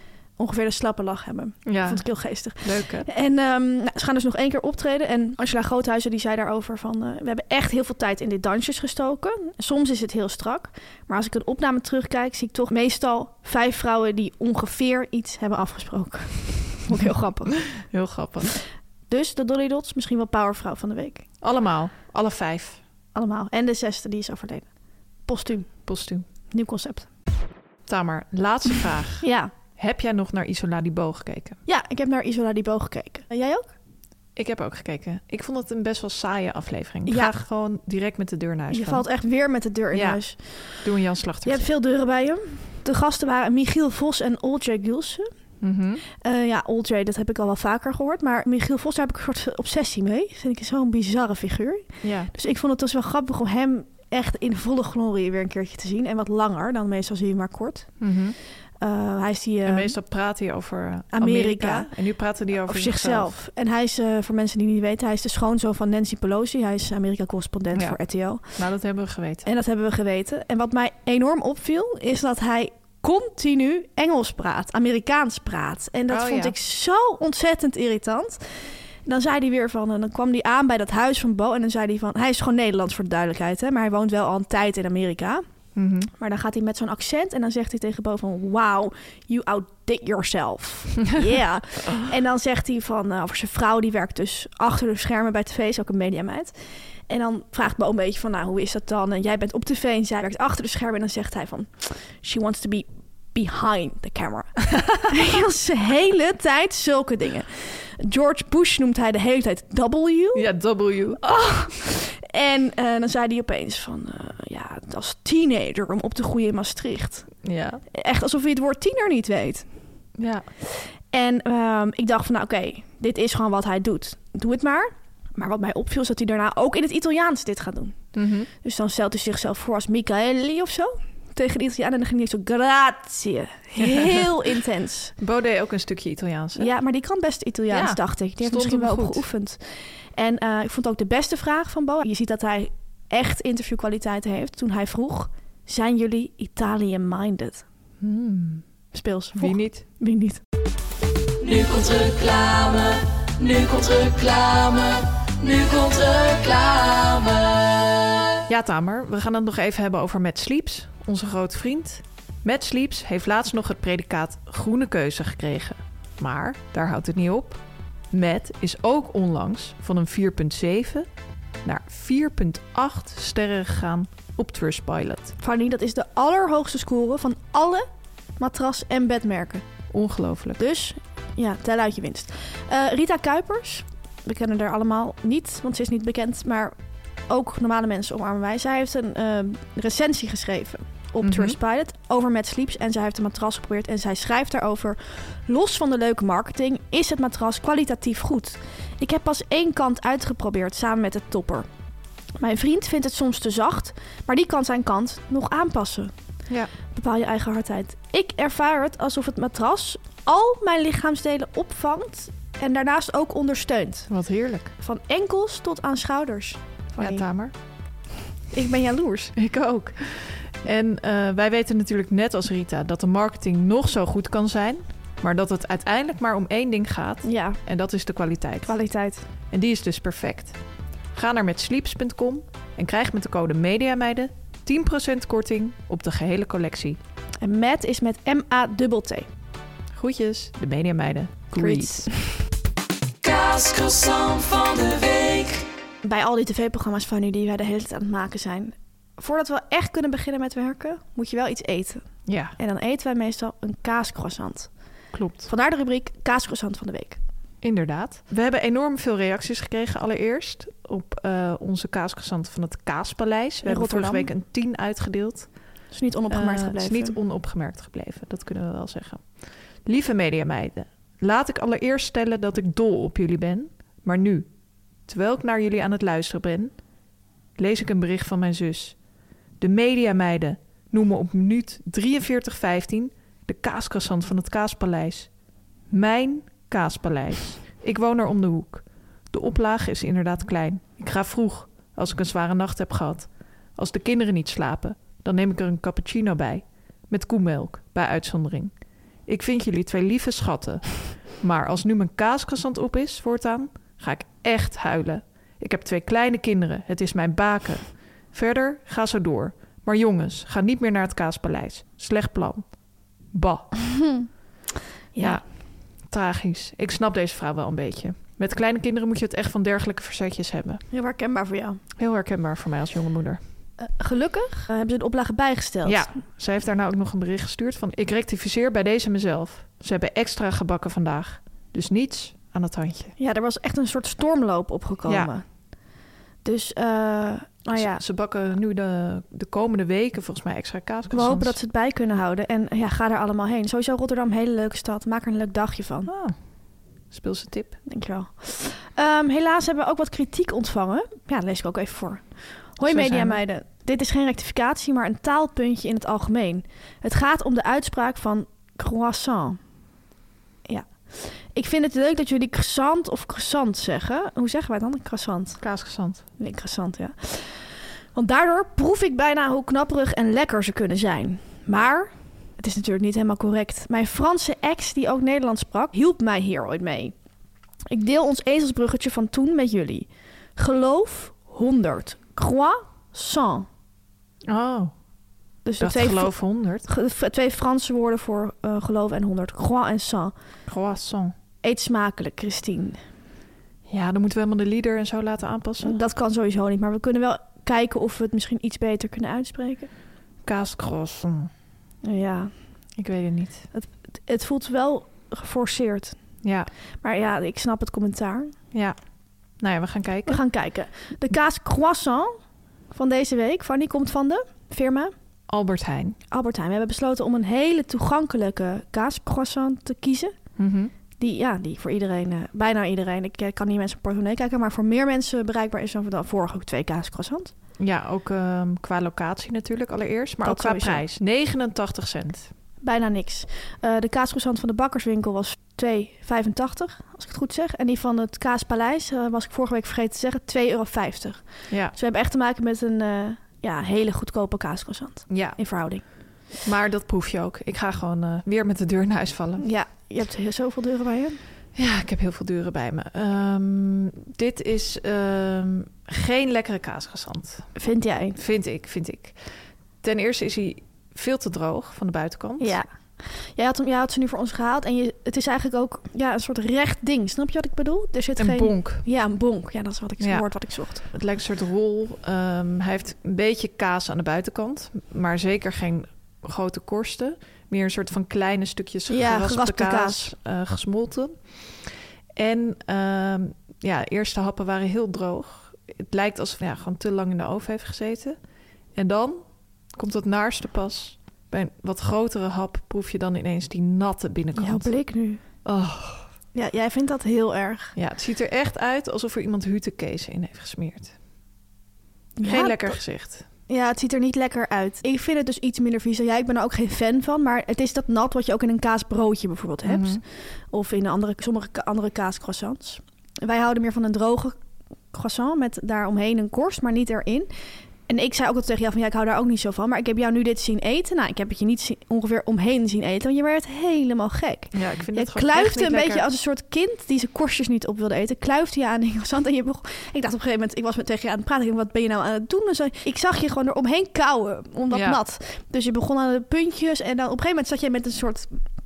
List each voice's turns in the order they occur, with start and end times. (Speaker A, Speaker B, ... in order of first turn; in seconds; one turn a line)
Speaker A: 0.4-17.7
Speaker B: 1.6-3.1
Speaker B: 17.7-18.5
Speaker A: 19.1-21.2
Speaker B: 21.4-22.8
Speaker A: 23.1-24.7
Speaker A: 25.3-25.7
Speaker B: 25.9-26.2
Speaker A: 26.5-27.1
Speaker B: 27.9-31.6
Speaker A: 29.2-29.5
Speaker A: 31.6-33.7
Speaker B: 34.4-39.0
Speaker A: 37.1-37.3
Speaker A: 38.7-40.8
Speaker B: 39.9-41.7
Speaker A: 41.4-45.3
Speaker B: 45.6-46.0
Speaker A: 46.2-58.0
Speaker B: 52.0-52.3
Speaker B: 58.0-58.4
Speaker A: 58.8-60.0
Speaker B: 59.6-63.3
Speaker A: 61.1-61.9
Speaker A: 62.5-68.4
Speaker B: 67.7-68.0
Speaker B: 68.5-69.5
Speaker A: 69.4-78.5
Speaker B: 76.1-76.5
Speaker A: 79.0-85.4
Speaker B: 85.8-86.1
Speaker A: 86.2-96.5
Speaker A: 97.1-110.5
Speaker B: 110.3-111.2
Speaker A: 111.2-117.3
Speaker B: 117.4-117.8
Speaker A: 117.9-119.7
Speaker B: 120.2-120.5
Speaker A: 121.1-128.0
Speaker B: 128.1-128.5
Speaker A: 128.6-135.1
Speaker B: 133.8-134.3
Speaker B: 135.2-136.7
Speaker A: 136.6-147.6
Speaker B: 137.7-139.2
Speaker B: 148.0-148.6
Speaker A: 148.9-150.4
Speaker B: 149.3-149.8
Speaker C: 151.4-158.2
Speaker B: 158.5-171.1
Speaker B: 171.6-175.3
Speaker A: 175.4-177.9
Speaker A: 178.4-179.6
Speaker B: 179.9-180.6
Speaker A: 180.6-186.7
Speaker A: 187.3-201.7
Speaker B: 191.2-191.6
Speaker A: 202.4-206.1
Speaker A: 206.9-214.1
Speaker B: 214.1-214.7
Speaker A: 214.8-217.2
Speaker B: 217.0-217.5
Speaker A: 218.5-219.3
Speaker B: 219.3-228.8
Speaker A: 227.2-227.6
Speaker A: 228.7-229.2
Speaker B: 229.5-230.6
Speaker B: 231.1-237.0
Speaker A: 237.4-239.3
Speaker B: 239.9-242.1
Speaker A: 241.5-242.1
Speaker C: 243.2-245.6
Speaker A: 246.0-252.0
Speaker B: 252.2-252.6
Speaker A: 252.6-254.7
Speaker B: 255.1-255.5
Speaker A: 255.4-257.2
Speaker B: 257.6-265.5
Speaker A: 263.6-264.3
Speaker A: 265.9-267.1
Speaker B: 266.3-269.3
Speaker B: 269.8-274.5
Speaker B: 275.1-276.7
Speaker B: 277.6-278.9
Speaker B: 279.6-285.3
Speaker B: 285.9-298.7
Speaker B: 299.3-312.6
Speaker B: 313.3-313.9
Speaker A: 314.0-314.3
Speaker A: 315.1-315.4
Speaker B: 315.2-315.4
Speaker B: 316.1-320.8
Speaker A: 320.9-321.8
Speaker B: 322.0-323.4
Speaker A: 323.8-326.1
Speaker B: 325.8-333.1
Speaker A: 333.2-335.4
Speaker B: 335.1-335.3
Speaker A: 336.4-338.0
Speaker B: 337.7-341.6
Speaker A: 341.1-346.1
Speaker B: 346.1-346.4
Speaker B: 347.1-347.8
Speaker A: 347.9-359.6
Speaker B: 352.8-353.4
Speaker A: 360.7-365.6
Speaker B: 365.6-366.2
Speaker A: 366.4-377.1
Speaker A: 377.9-383.7
Speaker B: 384.5-384.9
Speaker A: 385.6-390.3
Speaker B: 385.8-386.9
Speaker B: 390.7-391.3
Speaker A: 391.6-393.0
Speaker B: 393.9-396.0
Speaker A: 395.8-399.9
Speaker B: 400.4-401.5
Speaker A: 402.0-402.5
Speaker B: 403.0-403.7
Speaker A: 403.7-406.2
Speaker B: 406.4-406.7
Speaker A: 407.0-408.5
Speaker B: 409.6-410.4
Speaker A: 410.3-412.3
Speaker A: 412.9-415.1
Speaker B: 415.5-416.2
Speaker A: 416.3-420.3
Speaker B: 420.6-420.9
Speaker A: 421.2-427.5
Speaker B: 427.8-432.5
Speaker A: 430.4-431.0
Speaker A: 432.8-446.0
Speaker B: 441.7-441.9
Speaker B: 445.3-445.6
Speaker B: 446.6-449.6
Speaker A: 449.6-451.4
Speaker B: 451.8-457.7
Speaker A: 457.8-458.4
Speaker B: 458.3-459.4
Speaker B: 460.0-462.8
Speaker A: 462.6-471.0
Speaker B: 468.4-469.0
Speaker B: 470.2-488.4
Speaker A: 479.1-480.3
Speaker B: 488.9-489.4
Speaker B: 489.9-494.9
Speaker A: 494.6-495.4
Speaker B: 495.6-496.2
Speaker A: 496.5-497.9
Speaker B: 497.9-501.1
Speaker A: 502.4-503.0
Speaker B: 502.4-503.4
Speaker A: 503.7-514.6
Speaker B: 509.8-510.2
Speaker A: 515.1-517.5
Speaker A: 518.1-538.6
Speaker B: 524.7-526.2
Speaker B: 534.9-535.2